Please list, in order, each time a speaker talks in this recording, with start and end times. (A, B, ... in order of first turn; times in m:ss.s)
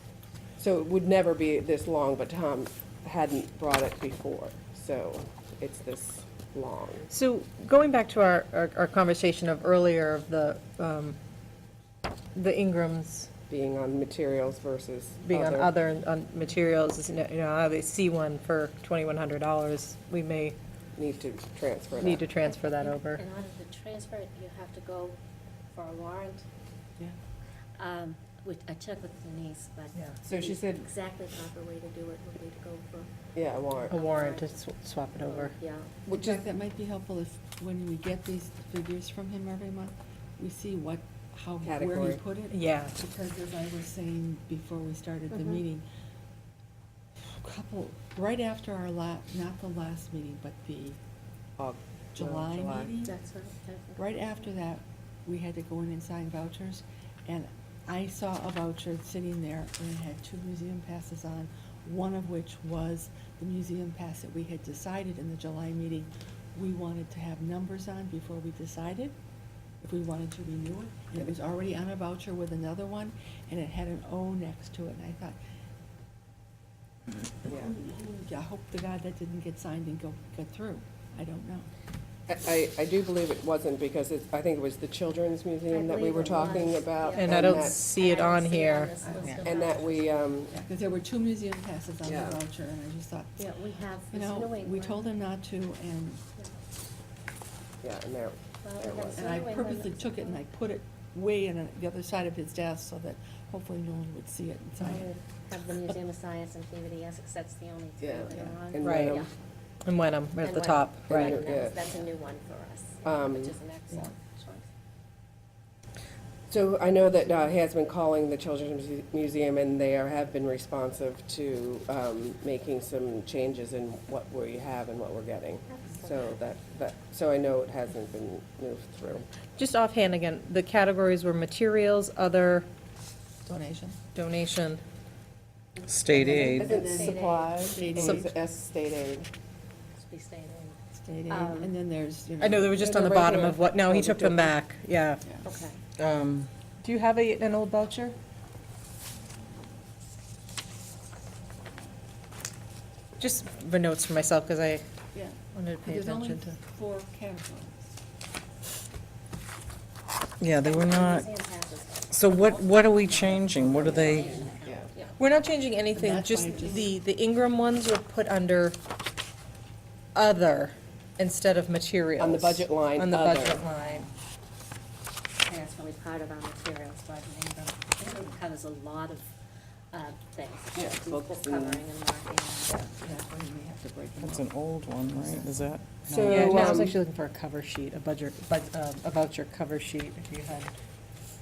0:00.6-0:07.1 A
0:07.1-0:11.2 B
0:12.3-0:13.3 B
0:13.5-0:15.7 A
0:15.2-0:20.6 B
0:21.0-0:22.2 A
0:22.0-0:23.2 B
0:22.4-0:25.2 C
0:25.7-0:26.4 C
0:27.8-0:33.1 C
0:30.2-0:30.9 A
0:33.3-0:33.9 A
0:33.9-0:35.6 B
0:33.9-0:34.5 C
0:35.3-0:36.1 C
0:36.1-0:45.8 D
0:41.6-0:42.2 A
0:42.5-0:43.0 B
0:45.3-0:45.6 C
0:47.3-0:51.0 D
0:51.6-0:52.9 A
0:52.1-0:53.1 D
0:52.9-0:54.5 C
0:54.0-1:09.1 D
1:09.8-1:15.4 D
1:17.4-1:21.7 D
1:17.5-1:17.7 A
1:22.3-1:27.8 A
1:25.7-1:30.0 C
1:27.1-1:29.0 B
1:29.0-1:29.5 D
1:29.4-1:30.5 A
1:30.5-1:33.5 D
1:32.0-1:32.4 A
1:33.4-1:35.1 C
1:34.1-1:36.2 D
1:37.8-1:39.3 A
1:38.6-1:40.4 C
1:39.2-1:45.1 D
1:44.8-1:49.3 C
1:48.0-1:49.3 A
1:48.8-1:49.2 B
1:49.8-1:51.5 B
1:50.4-1:54.7 C
1:51.1-1:51.8 A
1:53.0-1:53.6 A
1:56.5-2:09.3 A
2:05.7-2:06.2 C
2:09.6-2:12.7 B
2:13.4-2:14.0 D
2:14.1-2:14.8 B
2:15.9-2:16.8 E
2:16.1-2:18.3 D
2:16.4-2:18.0 C
2:16.6-2:19.3 A
2:19.9-2:20.8 C
2:21.0-2:22.8 D
2:21.3-2:21.8 C
2:22.4-2:25.2 B
2:22.8-2:24.6 A
2:25.2-2:25.5 D
2:25.4-2:25.8 C
2:26.0-2:26.5 E
2:26.8-2:28.2 B
2:33.2-2:34.8 B
2:35.1-2:38.0 D
2:35.5-2:36.6 B
2:40.4-2:41.3 E
2:40.6-2:45.2 C
2:42.1-2:44.4 E
2:43.7-2:44.9 A
2:45.2-2:48.8 B
2:45.9-2:46.9 D
2:50.1-2:54.1 B
2:52.2-2:53.6 A
2:55.4-2:59.3 C
2:59.9-3:02.8 C
3:00.7-3:01.8 A
3:02.7-3:04.5 D
3:04.2-3:06.7 E
3:05.1-3:05.6 D
3:06.1-3:07.0 A
3:06.3-3:10.7 B